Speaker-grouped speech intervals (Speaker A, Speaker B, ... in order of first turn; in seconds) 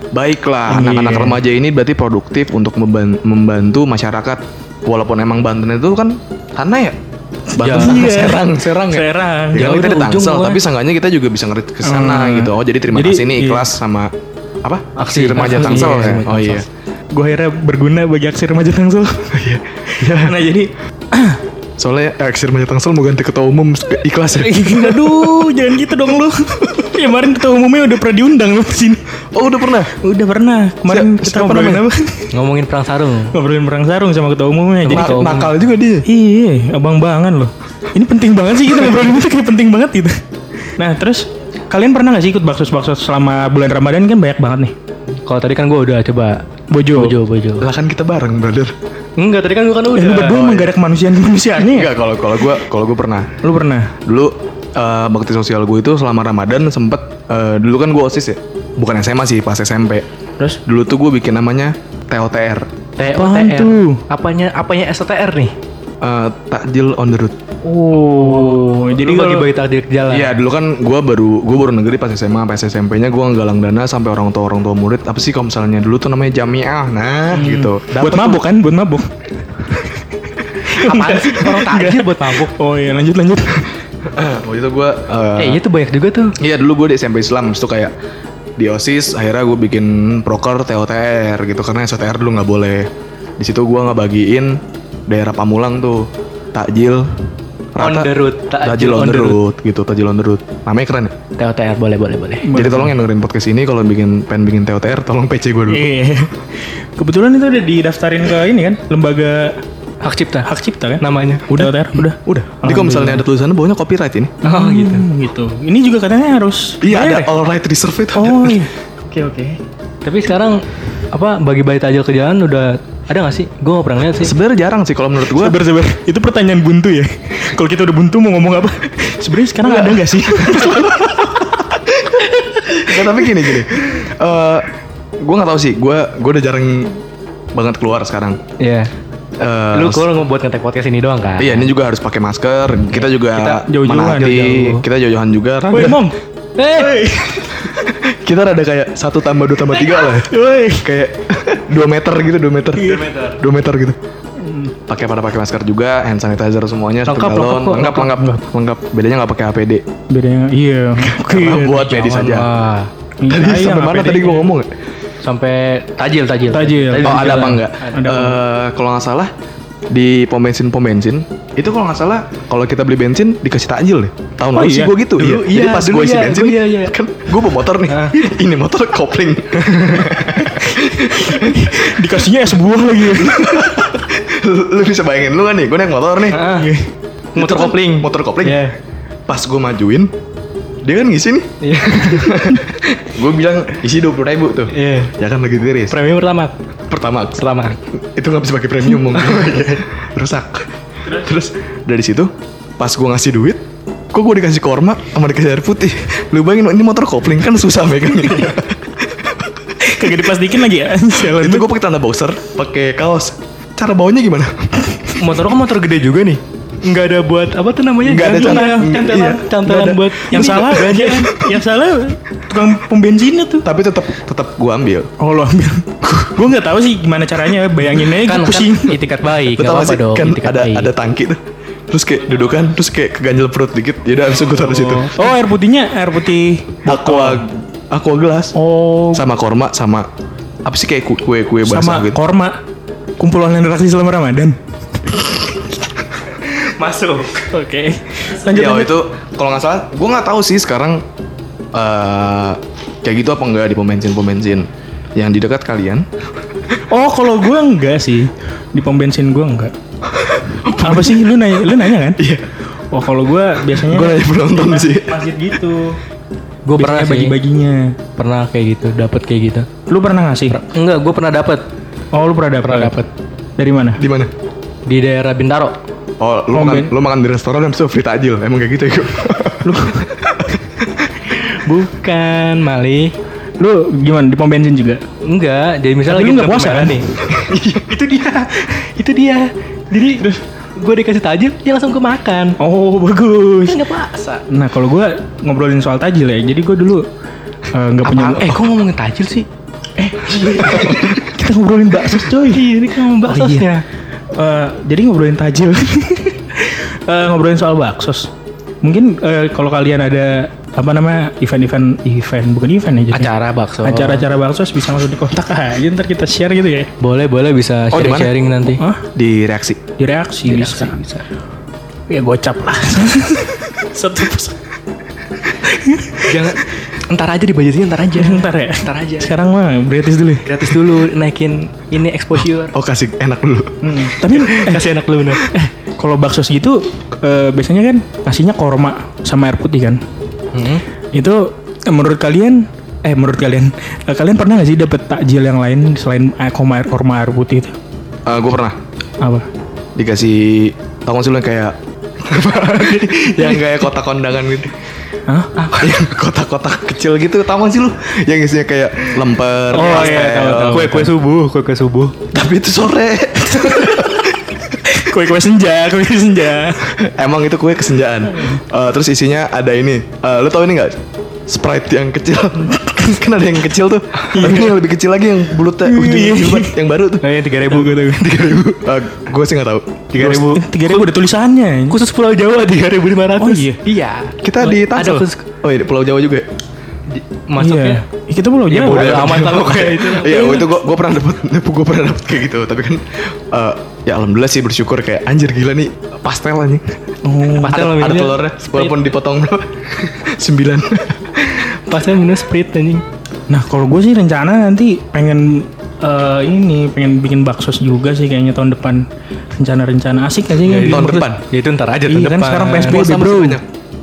Speaker A: 0.1-7.0, 7.5-14.1, 14.6-16.6, 19.3-20.4, 21.8-25.6, 29.3-29.9, 30.9-31.8, 34.9-36.0, 47.6-48.7, 50.2-50.7, 51.6-53.3, 54.1-60.0, 60.6-62.7, 66.0-67.3, 70.1-78.4, 84.1-85.6, 86.4-87.9, 88.6-97.1, 97.7-101.1, 102.5-105.8, 111.5-114.3, 116.8-118.7, 124.2-125.5, 129.6-134.7, 135.2-137.0, 137.5-138.4, 139.4-140.1, 141.4-146.0, 147.6-154.0, 154.9-159.8, 161.0-162.5, 163.3-164.7, 167.0-169.3, 169.9-181.8, 183.2-186.4, 187.4-188.6, 189.3-190.1, 190.8-196.0, 196.9-209.5, 211.2-215.1, 218.0-219.5, 223.6-225.1, 229.5-231.4, 231.9-235.1, 236.9-238.6, 239.1-240.1, 240.6-242.2, 248.5-251.0, 251.7-256.1, 260.1-261.4, 262.2-262.4, 263.7-265.2, 274.0-274.3, 276.2-280.6, 287.3-287.9, 317.9-318.3, 319.1-319.8, 332.7-334.8, 348.2-348.7, 349.9-354.8, 355.8-361.1, 362.3-364.3, 366.8-377.2, 378.8-380.4, 384.4-386.4, 388.8-396.8, 397.7-401.4, 410.9-411.4, 412.9-413.6
Speaker B: 0.7-1.4, 7.6-9.7, 11.8-13.7, 15.0-16.1, 17.1-19.3, 20.0-21.4, 24.4-29.0, 29.9-32.3, 33.3-35.3, 36.0-40.1, 40.8-44.7, 46.7-47.2, 49.9-51.9, 53.4-53.9, 63.1-64.0, 67.6-69.5, 77.3-79.1, 79.6-80.0, 80.7-83.7, 102.4-102.9, 105.7-106.3, 107.0-109.5, 110.4-113.2, 114.4-117.3, 118.1-118.7, 125.3-130.9, 143.4-144.6, 145.7-146.2, 146.8-147.6, 150.2-150.9, 154.4-154.7, 158.2-158.4, 160.1-162.0, 163.2-164.5, 166.5-168.4, 174.5-175.0, 180.7-183.8, 186.5-186.9, 209.8-211.7, 218.2-223.7, 225.2-229.0, 235.1-237.4, 238.5-239.3, 241.7-242.5, 243.2-244.6, 247.5-248.9, 256.9-259.7, 260.8-262.2, 262.9-266.0, 266.7-267.9, 269.9-270.6, 272.1-272.9, 273.6-274.0, 276.5-276.9, 279.6-280.1, 283.6-285.0, 286.1-287.0, 292.6-293.8, 294.5-297.0, 297.7-298.6, 300.0-303.7, 304.4-308.3, 308.8-313.3, 313.8-316.9, 318.8-319.1, 320.0-321.0, 322.1-324.6, 325.6-326.2, 328.2-330.7, 333.8-334.8, 335.4-340.0, 341.9-347.7, 355.3-355.5, 359.7-361.1, 364.8-366.9, 374.3-374.8, 375.8-376.8, 377.6-378.6, 380.2-382.0, 383.4-383.8, 387.6-389.6, 397.2-397.8, 403.5-409.0, 409.6-411.3, 412.1-413.6
Speaker C: 7.6-8.1, 9.6-10.6, 15.0-16.6, 32.3-33.3, 34.8-35.6, 45.2-46.4, 46.9-47.7, 49.2-50.3, 63.0-65.5, 68.0-70.3, 80.7-82.5, 85.4-86.3, 97.8-99.4, 101.4-102.5, 110.0-110.5, 111.0-111.5, 114.4-115.1, 119.1-124.3, 132.4-132.9, 138.6-138.9, 139.7-141.7, 144.2-144.8, 146.6-147.0, 149.7-150.1, 152.8-153.4, 157.0-158.1, 161.9-162.9, 165.2-167.9, 175.2-176.9, 177.9-178.2, 179.7-180.1, 186.3-186.7, 187.3-188.7, 191.6-192.8, 194.7-195.1, 195.9-196.5, 197.4-197.8, 199.1-199.8, 215.2-221.4, 228.2-230.9, 234.4-235.3, 246.4-247.4, 266.7-267.4, 268.2-269.7, 270.5-271.6, 272.6-273.1, 274.9-275.8, 281.3-283.1, 285.2-287.1, 287.6-292.6, 293.7-294.4, 298.0-299.5, 300.4-301.1, 302.3-303.8, 313.1-314.2, 317.0-318.8, 320.4-321.2, 326.2-329.3, 330.4-332.7, 334.2-335.4, 340.5-340.8, 355.6-355.9, 359.7-362.1, 377.2-378.7, 380.1-381.1, 381.9-385.4, 387.1-388.0, 388.7-390.7, 397.5-399.0, 401.5-403.0, 410.6-413.0